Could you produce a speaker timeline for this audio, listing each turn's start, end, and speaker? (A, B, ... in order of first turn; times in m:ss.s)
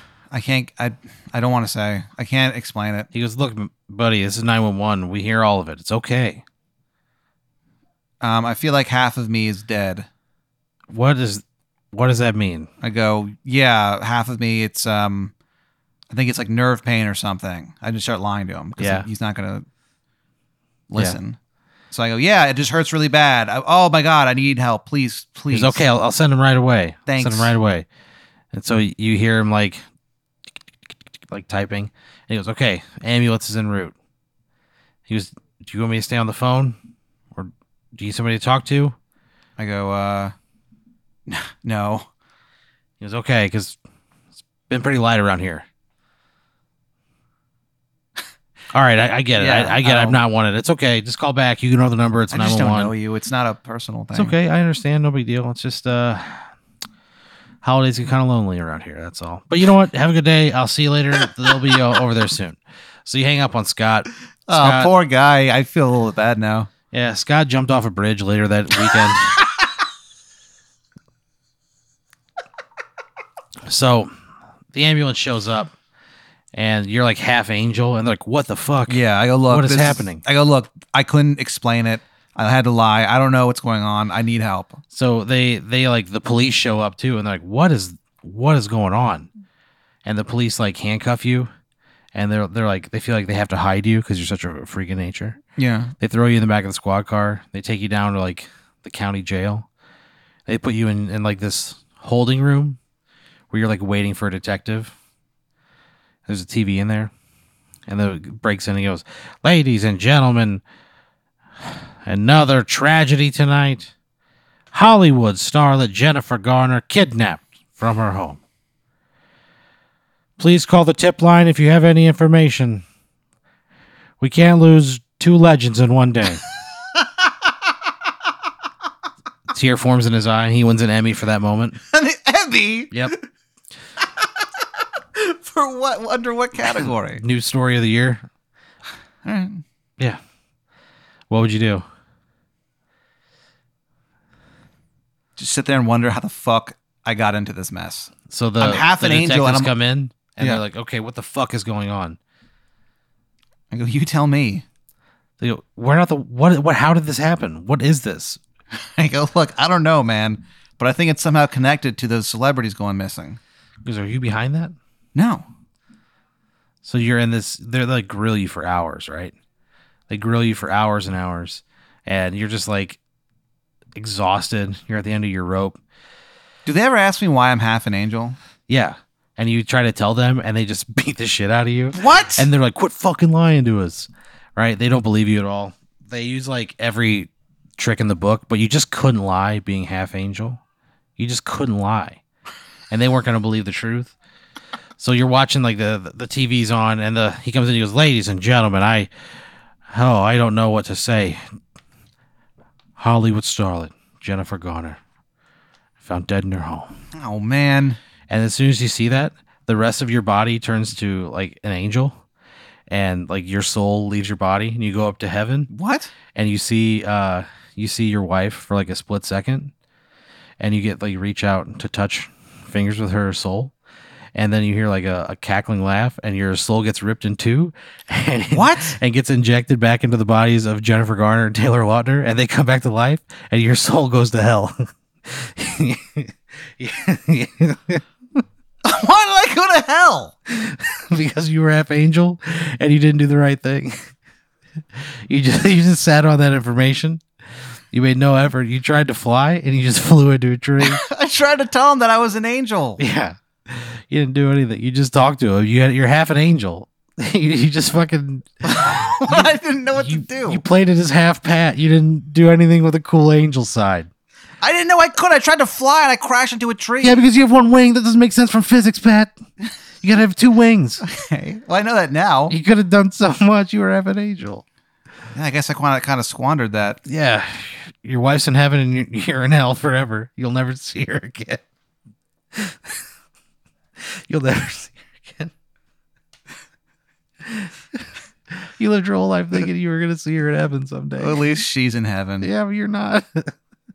0:00.3-0:03.1 A
0:03.1-0:06.4 B
0:08.2-0:10.1 A
0:10.9-0:12.7 B
0:12.8-0:15.3 A
0:16.1-0:19.6 A
0:18.8-0:19.1 B
0:20.9-0:21.4 A
0:21.9-0:25.8 A
0:25.5-0:27.9 B
0:27.1-0:27.5 A
0:28.5-0:29.8 B
0:31.3-0:34.0 B
0:35.1-0:36.8 B
0:37.4-0:39.0 B
0:39.6-0:40.3 A
0:41.3-0:42.1 A
0:43.0-0:43.8 B
0:44.7-0:45.7 B
0:48.7-0:52.9 B
0:49.4-0:50.2 A
0:52.3-0:54.4 A
0:54.1-0:56.5 B
0:57.6-1:04.9 B
1:04.5-1:06.7 A
1:06.9-1:09.4 B
1:13.7-1:14.1 B
1:14.7-1:15.7 B
1:16.5-1:20.2 B
1:18.9-1:24.8 A
1:24.9-1:29.3 B
1:30.0-1:31.5 B
1:32.1-1:35.4 B
1:35.6-1:35.9 A
1:36.0-1:39.7 B
1:40.5-1:42.8 B
1:43.5-1:44.9 B
1:46.3-1:47.1 B
1:47.9-1:50.6 B
1:51.6-1:53.9 B
1:54.7-1:58.4 B
2:00.4-2:02.8 B
2:04.2-2:06.4 B
2:09.5-2:11.8 B
2:11.9-2:13.2 A
2:15.1-2:17.2 A
2:17.2-2:18.2 B
2:19.2-2:19.6 A
2:21.3-2:21.8 B
2:25.4-2:29.7 A
2:28.3-2:32.2 B
2:33.7-2:34.6 A
2:35.4-2:38.4 B
2:38.8-2:43.4 A
2:43.8-2:44.8 B
2:45.2-2:45.5 A
2:46.8-2:49.4 B
2:50.1-2:53.0 B
2:54.0-2:55.8 B
2:56.7-2:58.4 A
2:58.7-3:10.6 B
3:01.9-3:02.5 A
3:11.2-3:12.2 B
3:12.9-3:14.2 B
3:15.0-3:19.1 B
3:19.9-3:21.4 B
3:23.0-3:25.0 B
3:26.0-3:26.9 B
3:27.1-3:28.0 A
3:28.3-3:32.2 B
3:32.9-3:35.7 B
3:35.7-3:36.1 A
3:36.4-3:39.7 B
3:40.6-3:43.7 B
3:44.4-3:58.0 B
3:48.5-3:49.0 A
3:58.8-4:00.3 A
4:00.5-4:04.1 B
4:05.0-4:07.2 B
4:07.9-4:11.0 B
4:10.8-4:13.0 A
4:13.0-4:24.1 B
4:18.7-4:20.6 A
4:24.6-4:27.2 A
4:27.0-4:29.3 B
4:30.0-4:31.0 B
4:31.0-4:32.5 A
4:32.5-4:34.6 B
4:35.3-4:37.0 A
4:37.1-4:41.6 B
4:42.6-4:43.0 B
4:44.0-4:45.5 B
4:47.4-4:51.5 B
4:51.2-4:52.5 A
4:52.4-4:53.5 B